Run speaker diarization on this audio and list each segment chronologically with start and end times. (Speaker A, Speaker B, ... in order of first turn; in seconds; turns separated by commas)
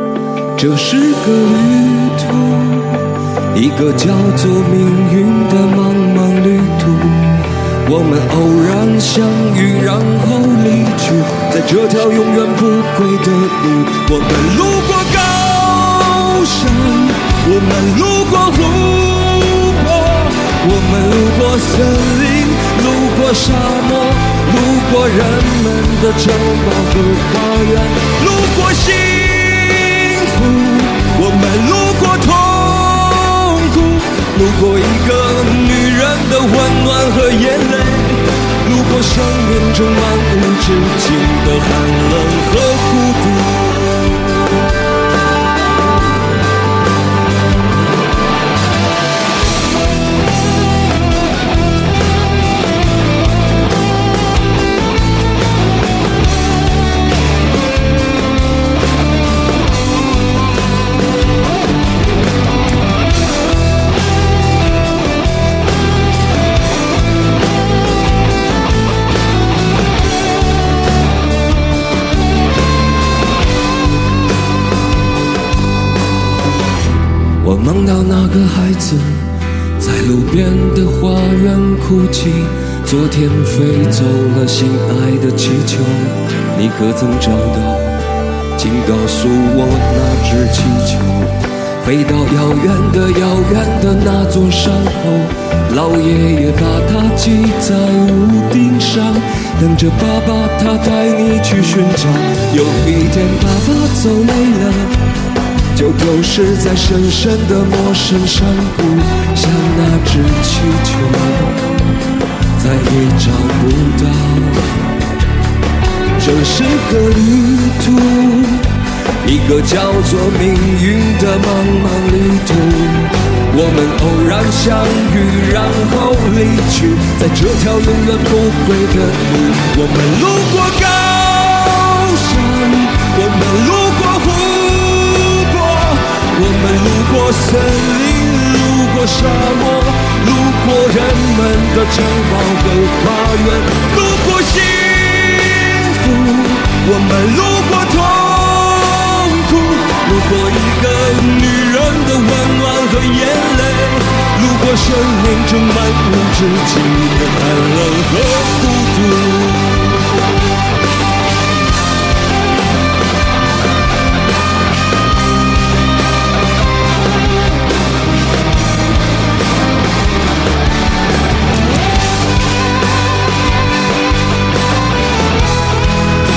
Speaker A: 0.6-44.2, Speaker A: 77.4-88.0, Speaker A: 88.5-104.9, Speaker A: 105.7-111.7, Speaker A: 112.6-114.8, Speaker A: 116.2-118.7, Speaker A: 119.2-160.0